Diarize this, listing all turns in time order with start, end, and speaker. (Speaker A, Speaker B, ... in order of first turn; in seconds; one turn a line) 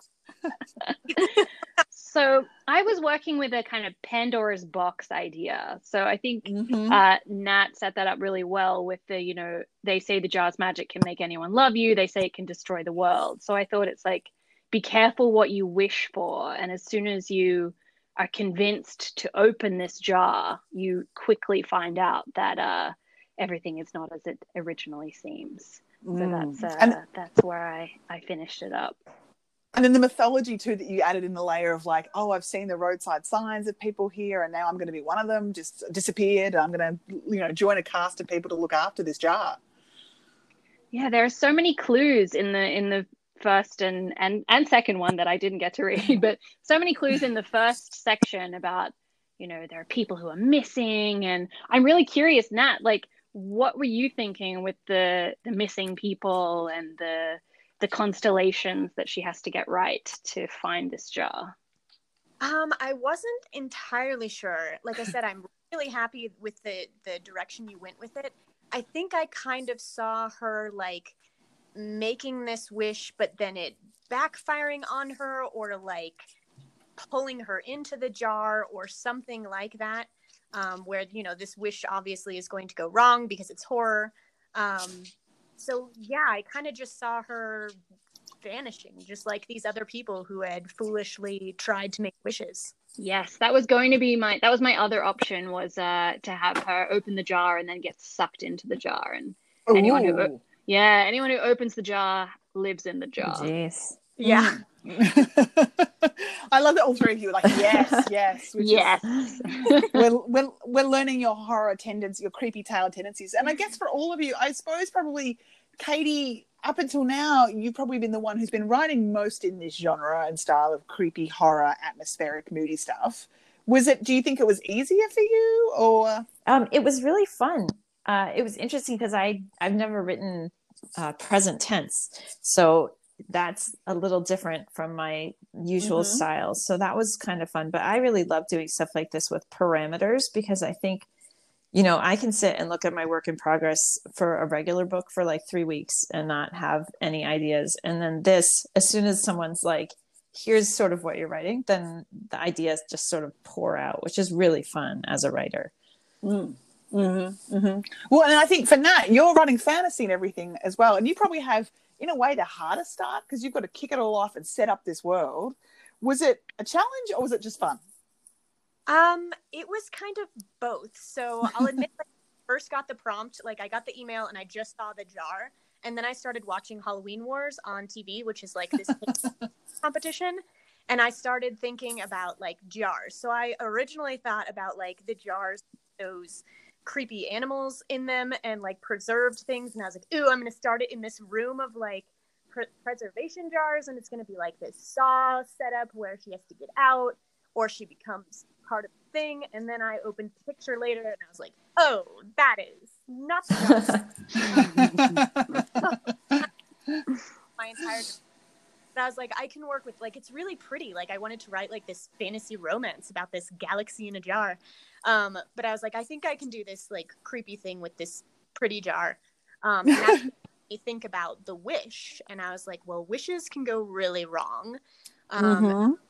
Speaker A: 0.8-29.0
Speaker B: 6.4-7.0
Speaker B: 26.0-27.0
Speaker B: 29.7-39.6
Speaker A: 40.9-61.5
Speaker C: 62.4-71.1
Speaker C: 71.7-76.3
Speaker C: 77.0-87.8
Speaker C: 88.4-92.7
Speaker A: 93.0-103.5
Speaker B: 99.7-100.4
Speaker D: 103.2-104.0
Speaker B: 104.2-109.0
Speaker C: 104.2-104.6
Speaker D: 107.5-108.1
Speaker A: 108.6-110.0
Speaker B: 109.8-126.2
Speaker D: 126.5-141.1
Speaker B: 135.8-136.2
Speaker D: 141.7-155.7
Speaker B: 156.2-167.8
Speaker C: 168.9-179.2
Speaker C: 179.8-204.1
Speaker B: 204.5-205.6
Speaker C: 207.5-208.2
Speaker C: 208.9-224.8
Speaker C: 225.3-225.8
Speaker B: 225.4-226.0